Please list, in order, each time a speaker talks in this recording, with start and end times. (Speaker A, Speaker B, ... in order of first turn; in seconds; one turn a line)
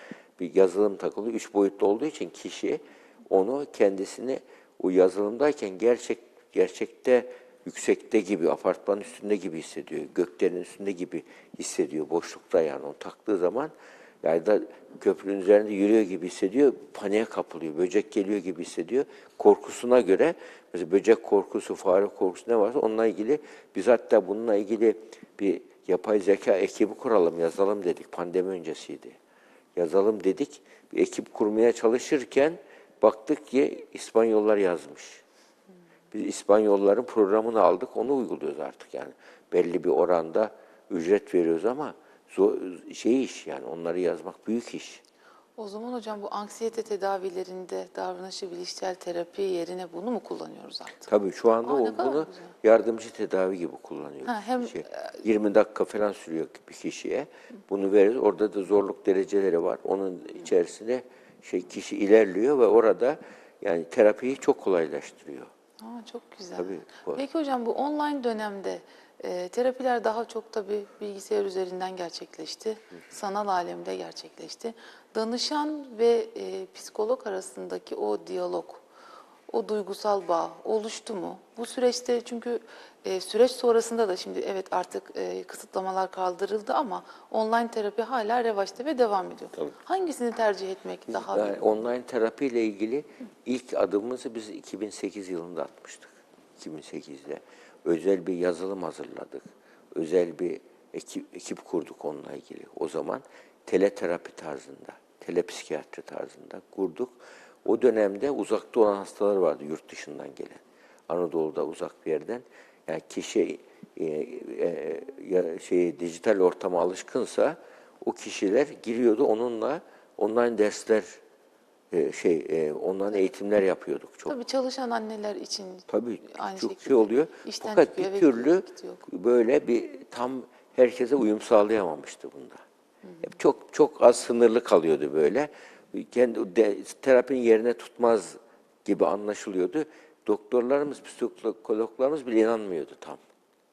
Speaker A: 0.4-29.2
Speaker A: 29.8-35.2
Speaker A: 36.1-45.0
Speaker B: 45.6-51.1
Speaker A: 51.1-65.5
Speaker B: 51.6-52.5
Speaker B: 54.2-55.2
Speaker B: 65.8-78.8
Speaker A: 66.6-67.2
Speaker B: 79.5-91.7
Speaker A: 91.2-121.2
Speaker A: 121.9-124.3
Speaker B: 124.3-129.1
Speaker A: 125.9-132.6
Speaker B: 133.0-133.4
Speaker A: 133.2-143.2